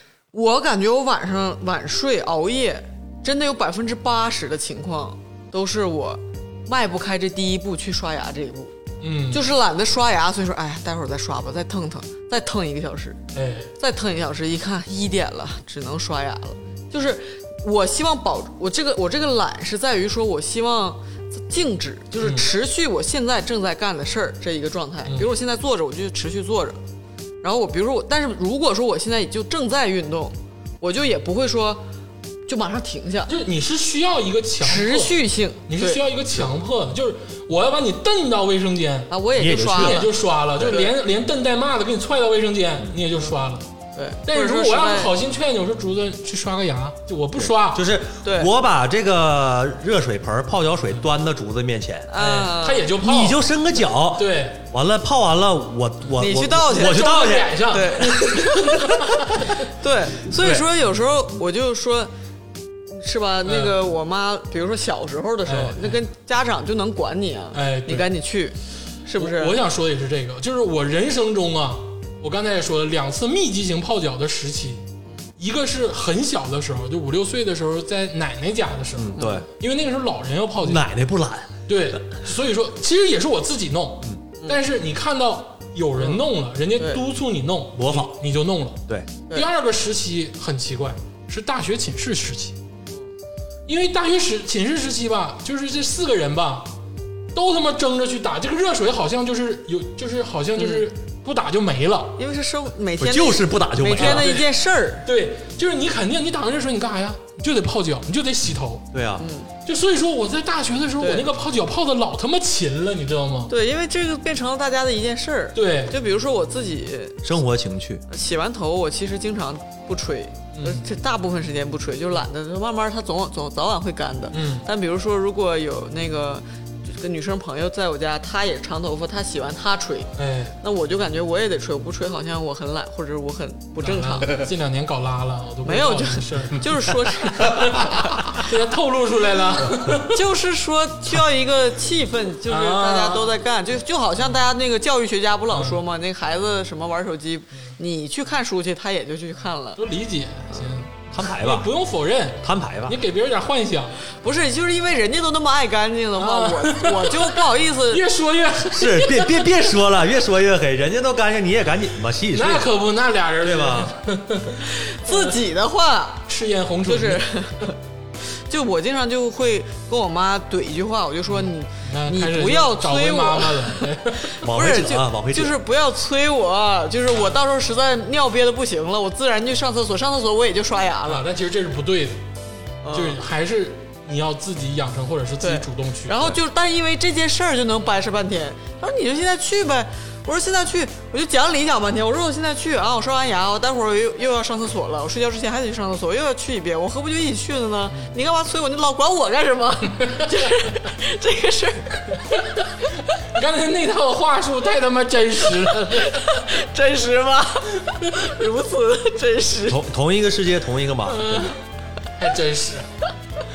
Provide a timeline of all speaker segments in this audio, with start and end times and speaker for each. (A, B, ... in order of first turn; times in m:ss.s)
0:00.3-0:08.7 A
0:09.0-0:09.4 B
0:09.3-0:13.2 A
0:13.3-0:13.7 B
0:13.8-0:26.8 A
0:22.2-0:22.5 B
0:27.4-0:31.8 A
0:32.5-0:33.3 A
0:33.3-0:39.1 B
0:34.6-0:36.0 A
0:39.1-0:40.9 A
0:39.4-0:40.1 C
0:39.6-0:43.7 B
0:44.0-0:45.2 A
0:44.3-0:47.8 B
0:47.4-0:52.2 C
0:48.2-0:48.5 A
0:52.1-0:52.9 A
0:52.2-0:53.5 B
0:53.0-0:57.7 C
0:54.1-0:54.6 B
0:56.2-1:02.1 A
0:56.7-0:59.6 B
1:00.4-1:00.6 C
1:02.9-1:09.6 A
1:03.4-1:03.8 B
1:05.4-1:06.0 B
1:07.5-1:08.1 B
1:09.2-1:14.8 B
1:15.4-1:20.9 B
1:19.0-1:19.5 C
1:19.2-1:19.4 A
1:20.6-1:22.0 C
1:21.7-1:32.6 B
1:26.8-1:27.0 A
1:27.8-1:28.1 C
1:33.7-1:36.7 B
1:37.3-1:42.2 B
1:40.6-1:40.9 A
1:42.2-1:45.1 A
1:43.0-1:44.3 C
1:43.9-1:48.9 B
1:48.9-1:49.3 C
1:49.2-1:49.5 A
1:49.6-1:53.5 B
1:51.0-1:51.3 A
1:53.5-1:57.3 A
1:55.5-1:56.0 B
1:57.2-1:58.0 C
1:58.1-2:14.5 A
2:00.5-2:00.9 B
2:04.3-2:04.7 B
2:10.2-2:10.6 B
2:13.8-2:20.2 B
2:15.6-2:18.4 A
2:20.0-2:29.8 A
2:22.5-2:23.3 B
2:25.5-2:25.8 B
2:29.8-2:34.0 B
2:30.5-2:30.8 A
2:31.1-2:31.7 C
2:32.4-2:33.0 C
2:34.1-2:38.0 A
2:36.2-2:39.4 B
2:38.7-2:42.7 C
2:42.3-2:45.4 B
2:43.4-2:43.9 C
2:44.6-2:46.3 A
2:46.3-2:47.2 B
2:46.8-2:47.8 A
2:48.5-2:53.9 A
2:51.3-2:54.4 B
2:54.4-3:01.3 A
2:54.4-2:55.6 C
3:01.1-3:02.2 B
3:02.8-3:03.2 A
3:02.9-3:06.4 B
3:05.4-3:22.4 A
3:22.3-3:26.4 B
3:25.8-3:29.8 A
3:29.7-3:31.5 C
3:31.1-3:31.6 B
3:32.1-3:32.9 B